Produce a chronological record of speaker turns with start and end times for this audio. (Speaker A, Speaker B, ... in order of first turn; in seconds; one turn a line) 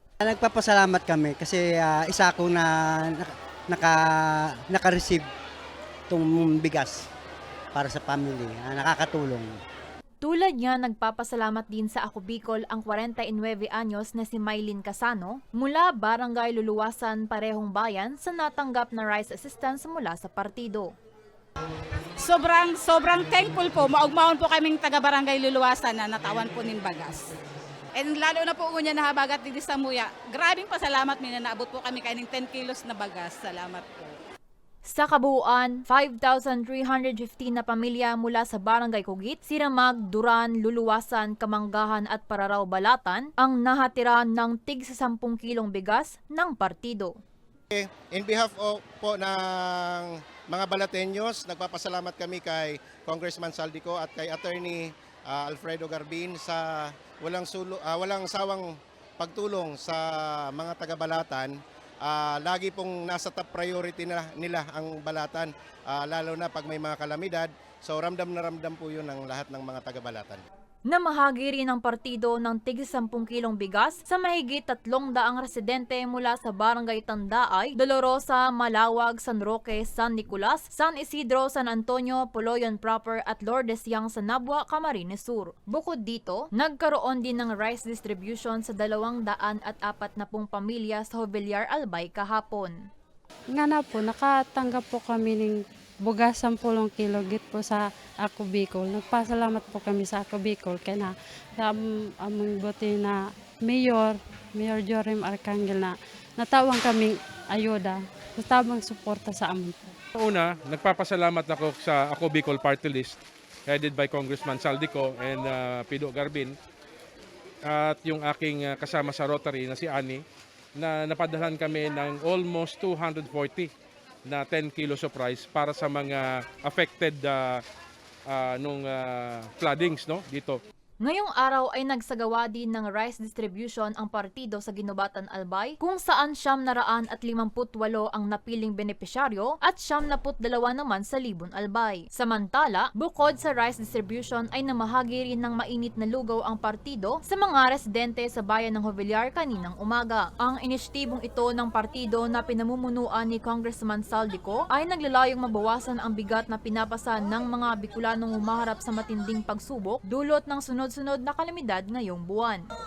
Speaker A: 0.2-5.3
Speaker A: 6.1-7.1
Speaker A: 7.7-9.6
Speaker B: 10.2-20.9
Speaker C: 22.2-27.3
Speaker C: 27.9-34.1
Speaker B: 34.9-47.1
Speaker D: 47.7-61.5
Speaker D: 62.0-70.4
Speaker B: 70.9-92.7
Speaker E: 93.5-95.5
Speaker E: 96.0-109.9
Speaker F: 110.2-116.5
Speaker F: 117.7-120.2
Speaker F: 120.8-123.7
Speaker F: 124.2-127.6
Speaker F: 128.3-130.6
Speaker B: 131.0-162.6